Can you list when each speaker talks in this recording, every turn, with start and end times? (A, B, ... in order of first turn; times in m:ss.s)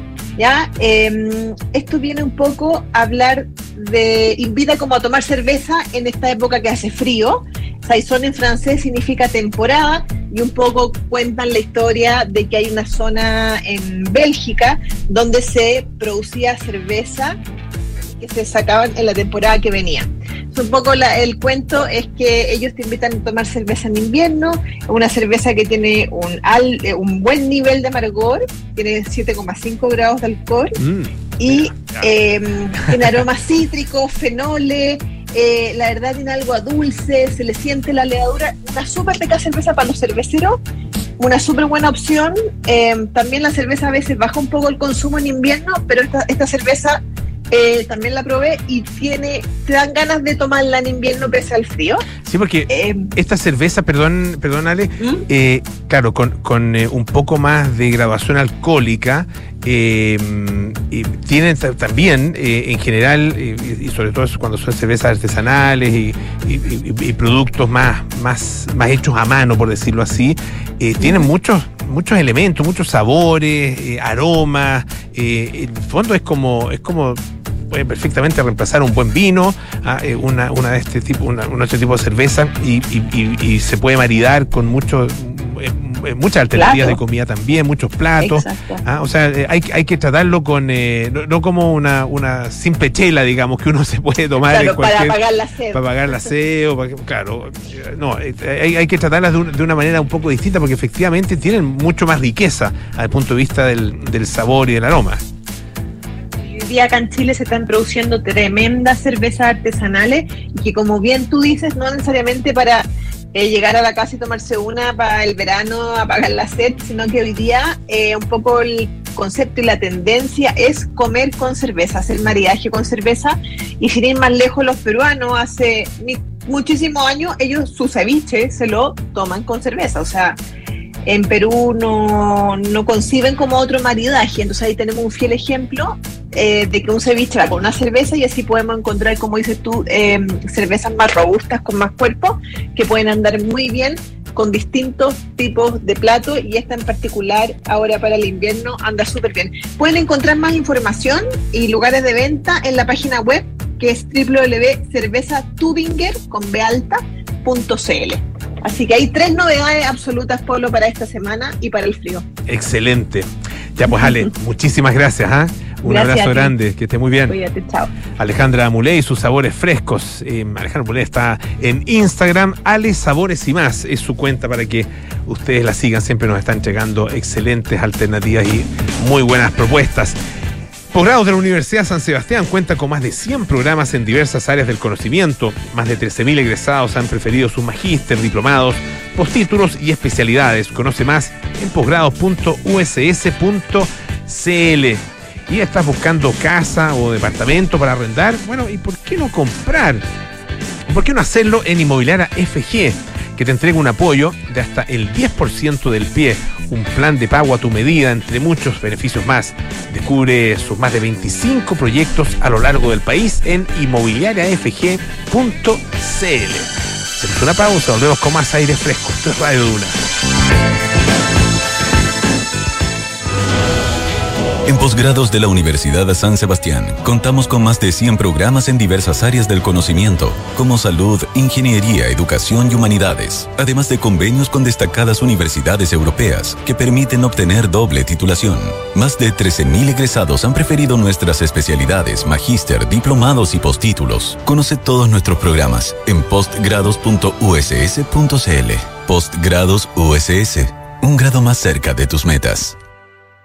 0:00.4-0:17.4 A
0:18.1-0:30.8 A
0:30.8-0:32.1 B
0:31.4-0:40.6 A
0:32.8-0:33.2 B
0:41.2-0:52.0 A
0:52.2-1:17.2 B
0:52.7-0:53.1 A
1:17.7-1:35.2 B
1:26.5-1:27.0 A
1:28.2-1:28.8 A
1:34.4-1:36.3 A
1:35.7-1:45.2 B
1:46.4-2:10.4 A
2:11.1-2:42.2 A
2:42.5-2:47.4 B
2:43.9-2:44.3 A
2:45.8-2:46.5 A
2:47.3-2:47.9 A
2:48.2-3:00.2 B
3:00.9-3:20.0 B
3:20.9-3:39.9 B
3:44.6-4:12.8 C